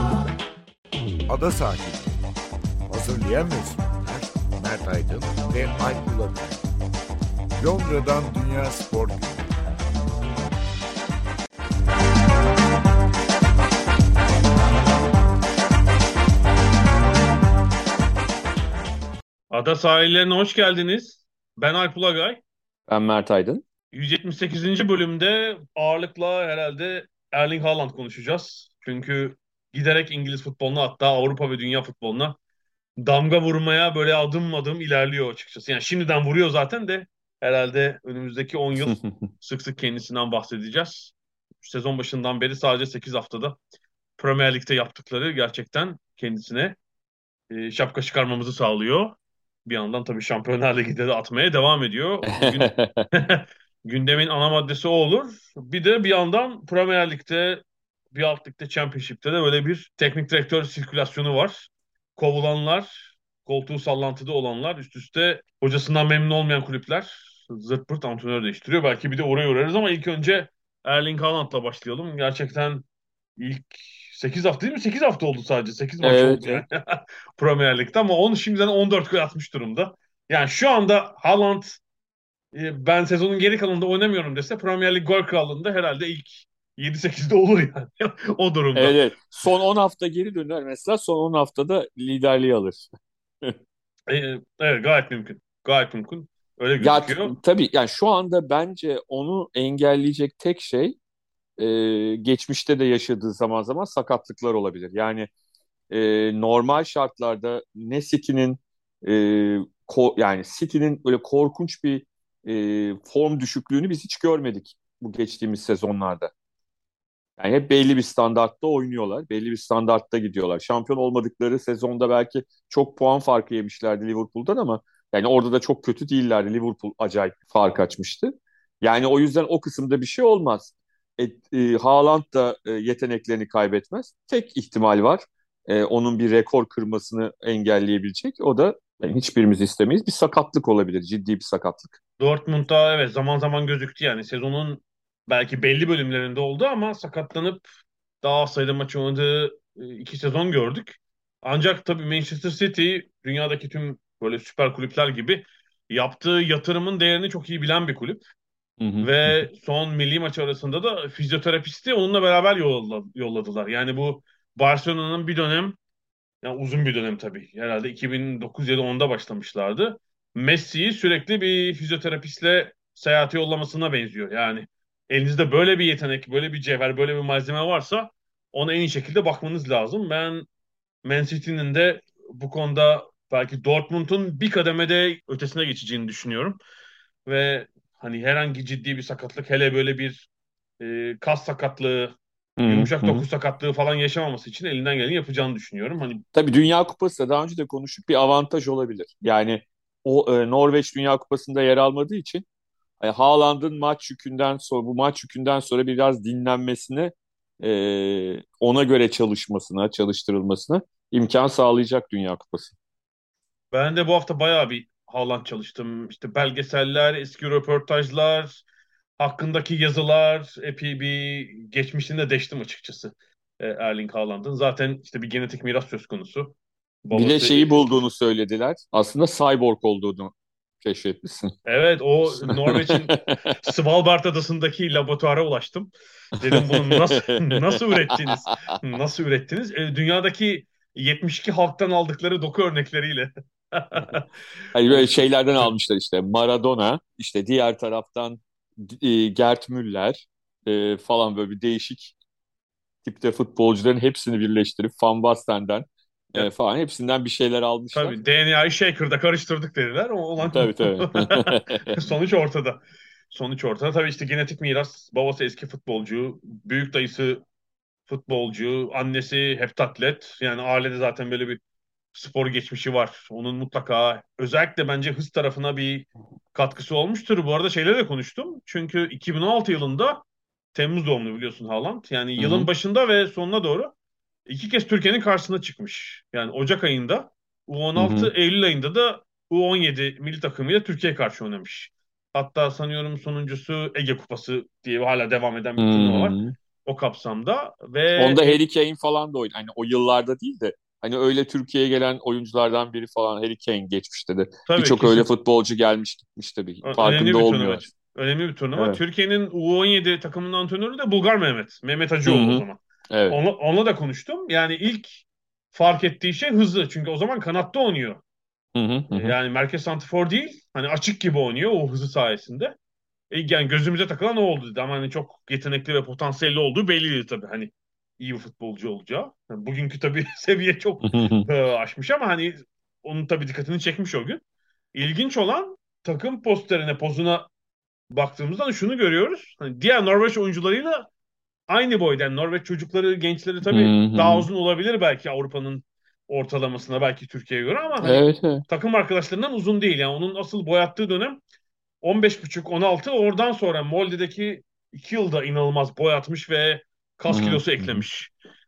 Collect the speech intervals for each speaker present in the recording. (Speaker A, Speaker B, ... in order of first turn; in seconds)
Speaker A: 1.3-2.2, 2.9-6.6, 7.6-9.5
Speaker B: 19.5-22.4, 23.9-32.4, 33.0-43.6, 44.2-46.8, 47.5-72.8, 73.4-81.8, 82.5-89.0, 94.1-97.3, 142.2-147.7, 148.2-158.2, 159.0-165.8, 166.4-180.5, 181.0-186.6, 187.2-190.3, 190.8-192.1, 192.7-196.2, 213.7-218.6, 219.2-228.0, 231.7-244.3, 244.8-245.7, 257.9-262.8, 263.3-267.4, 268.1-271.6, 272.1-280.2, 280.7-283.9, 284.5-298.6, 304.7-305.3, 306.8-318.2, 319.1-322.8, 323.3-334.4, 334.9-337.5, 338.1-341.1, 341.7-351.4, 352.0-358.3
Speaker C: 22.9-23.6, 38.8-39.3, 52.3-53.0, 76.0-76.6, 88.7-92.9, 96.8-101.0, 101.6-105.3, 105.9-116.3, 117.4-142.0, 158.8-159.5, 192.6-193.2, 196.3-202.4, 203.0-212.7, 227.1-231.5, 232.3-233.4, 236.4-238.5, 244.7-252.1, 253.0-258.2, 260.4-262.0, 282.4-282.7, 288.0-288.3, 295.8-296.5, 298.1-307.9, 312.2-313.4, 318.8-319.3, 331.0-331.5, 343.7-344.5, 348.0-348.6, 357.3-358.0